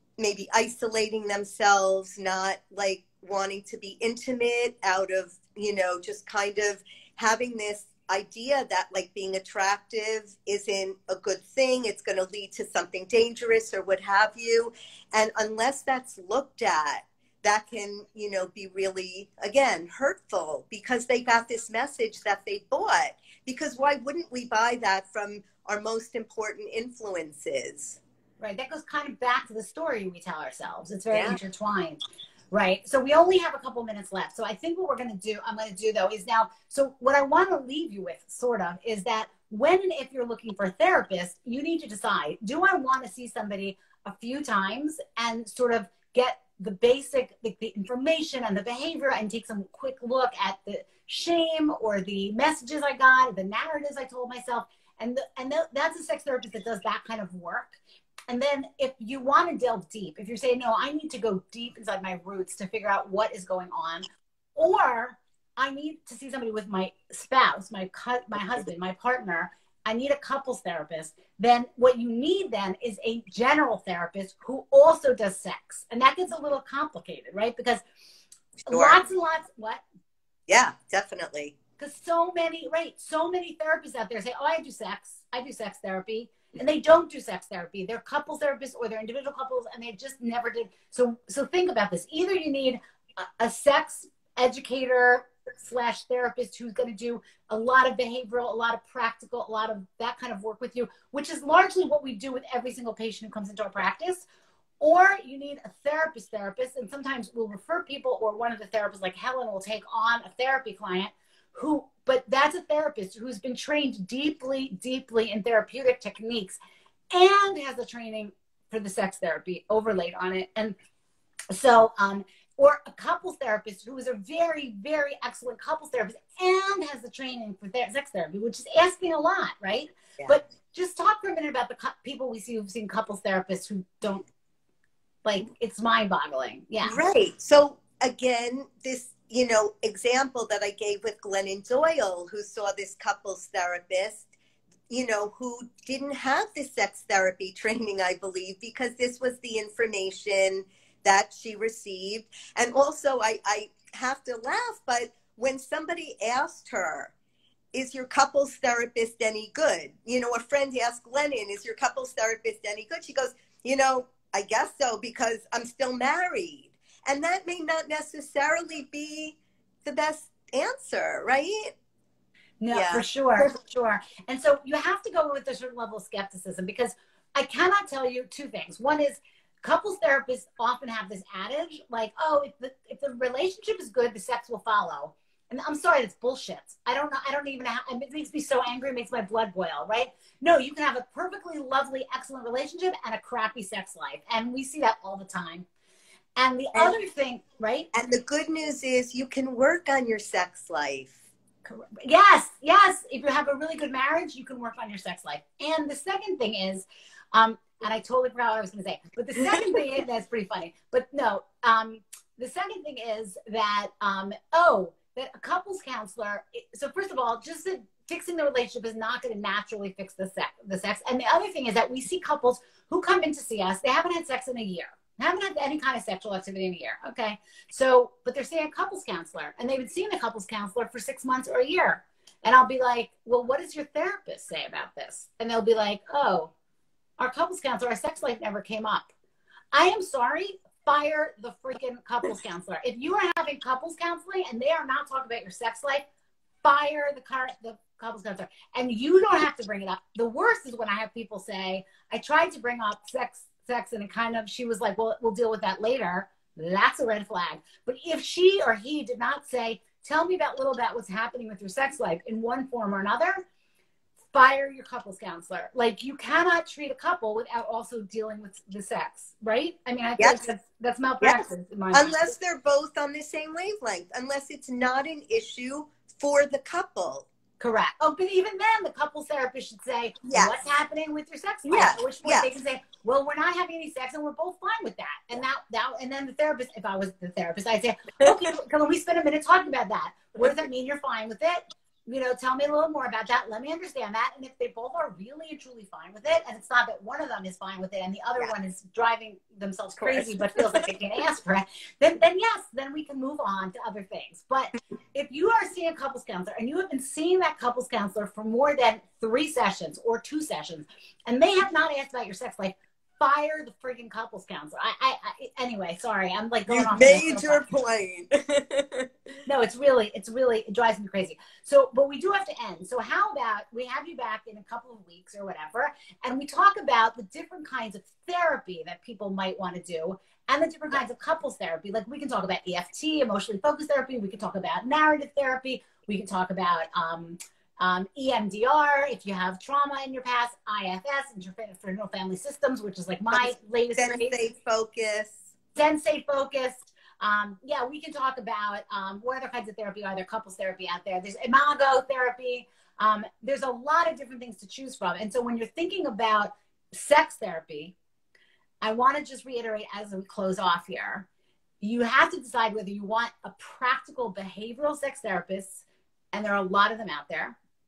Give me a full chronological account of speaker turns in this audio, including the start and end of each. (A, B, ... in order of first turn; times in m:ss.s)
0:00.2-0:28.0 A
0:28.4-0:32.0 B
0:31.1-0:31.4 A
0:32.5-0:57.8 B
0:58.3-1:04.0 B
1:04.6-1:17.8 B
1:18.7-1:19.8 B
1:18.7-1:19.0 A
1:20.5-1:21.6 A
1:21.8-1:44.3 B
1:44.8-1:56.6 B
1:57.1-2:00.8 B
2:01.5-2:14.3 B
2:15.2-2:17.0 B
2:16.9-2:24.3 A
2:24.9-2:37.1 A
2:37.7-2:51.7 A
2:52.6-3:15.7 B
2:52.7-2:53.5 A
3:16.4-3:17.9 B
3:17.9-3:21.2 A
3:21.7-3:56.5 B
3:57.2-3:59.1 B
3:59.7-4:06.1 B
4:06.6-4:23.4 B
4:24.3-4:32.3 B
4:31.2-4:37.3 A
4:37.6-5:17.6 B
4:40.2-4:40.6 A
4:41.7-4:42.5 A
5:00.0-5:00.8 A
5:16.7-5:19.1 A
5:19.5-5:44.4 B
5:43.3-5:45.4 A
5:45.8-5:58.0 B
5:58.8-6:01.3 B
6:01.8-6:07.6 B